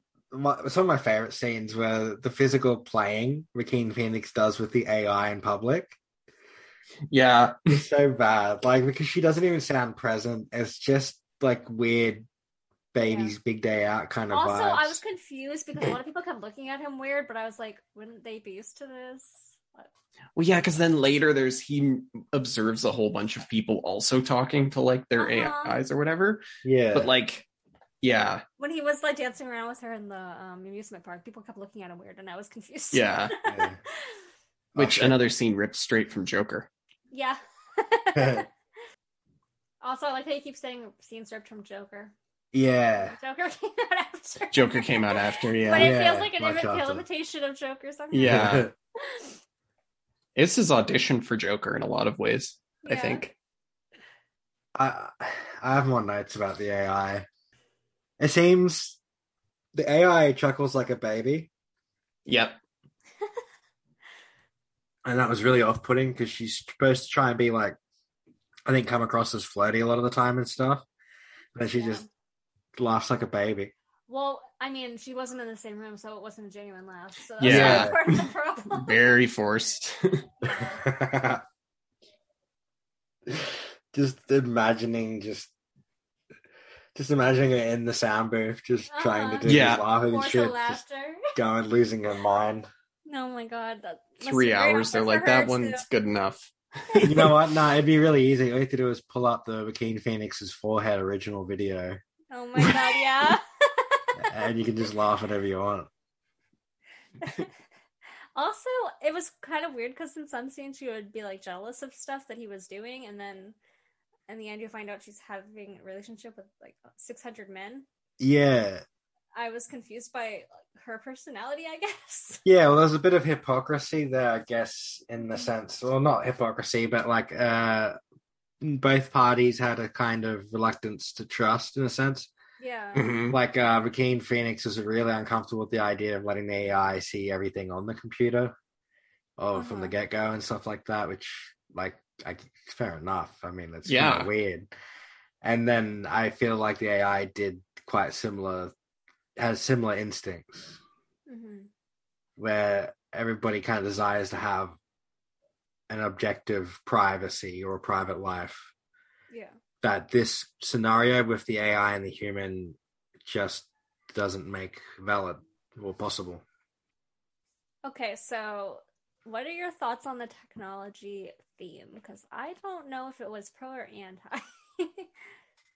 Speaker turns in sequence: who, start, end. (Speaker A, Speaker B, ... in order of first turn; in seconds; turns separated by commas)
Speaker A: 0.3-6.0, Speaker B: 7.1-7.7, Speaker A: 7.7-12.3, Speaker A: 12.9-15.0, Speaker C: 13.1-13.3, Speaker C: 14.3-19.9, Speaker B: 20.4-27.4, Speaker C: 25.2-25.8, Speaker A: 26.6-27.1, Speaker B: 28.0-28.4, Speaker C: 28.6-34.2, Speaker B: 32.9-33.3, Speaker A: 33.5-33.8, Speaker A: 34.7-35.2, Speaker B: 34.8-36.7, Speaker C: 37.1-38.5, Speaker A: 38.1-38.5, Speaker C: 39.8-42.1, Speaker A: 42.5-43.2, Speaker C: 43.0-48.4, Speaker B: 44.5-46.0, Speaker A: 45.8-47.0, Speaker B: 48.1-48.7, Speaker A: 48.2-48.7, Speaker C: 49.0-49.3, Speaker B: 50.4-53.3, Speaker C: 52.9-53.3, Speaker A: 54.8-57.3, Speaker A: 58.2-59.0, Speaker A: 59.7-61.5, Speaker B: 62.3-62.6, Speaker A: 65.0-67.8, Speaker A: 68.7-70.9, Speaker A: 71.5-72.0, Speaker C: 71.8-72.1, Speaker A: 72.8-73.7, Speaker C: 74.1-79.1, Speaker B: 77.4-80.2, Speaker A: 77.4-77.9, Speaker C: 80.4-80.8, Speaker A: 80.6-81.4, Speaker A: 83.3-85.5, Speaker A: 87.0-90.8, Speaker C: 88.9-91.3, Speaker B: 89.5-89.9, Speaker A: 91.3-92.7, Speaker C: 93.0-95.8, Speaker B: 94.2-97.4, Speaker A: 97.0-102.0, Speaker C: 102.3-104.4, Speaker A: 104.2-105.9, Speaker C: 107.2-107.5, Speaker C: 108.4-113.6, Speaker C: 114.3-117.9, Speaker A: 118.2-118.8, Speaker C: 119.3-122.4, Speaker A: 122.5-128.0, Speaker A: 128.6-132.3, Speaker C: 132.6-133.1, Speaker B: 132.9-133.4, Speaker A: 133.3-138.6, Speaker A: 139.4-144.7, Speaker C: 139.6-139.9, Speaker B: 143.8-144.3, Speaker A: 145.4-148.7, Speaker A: 149.4-150.8, Speaker C: 151.3-151.7, Speaker A: 152.4-154.8, Speaker A: 155.9-158.7, Speaker C: 159.3-159.6, Speaker A: 159.8-166.4, Speaker C: 167.8-175.1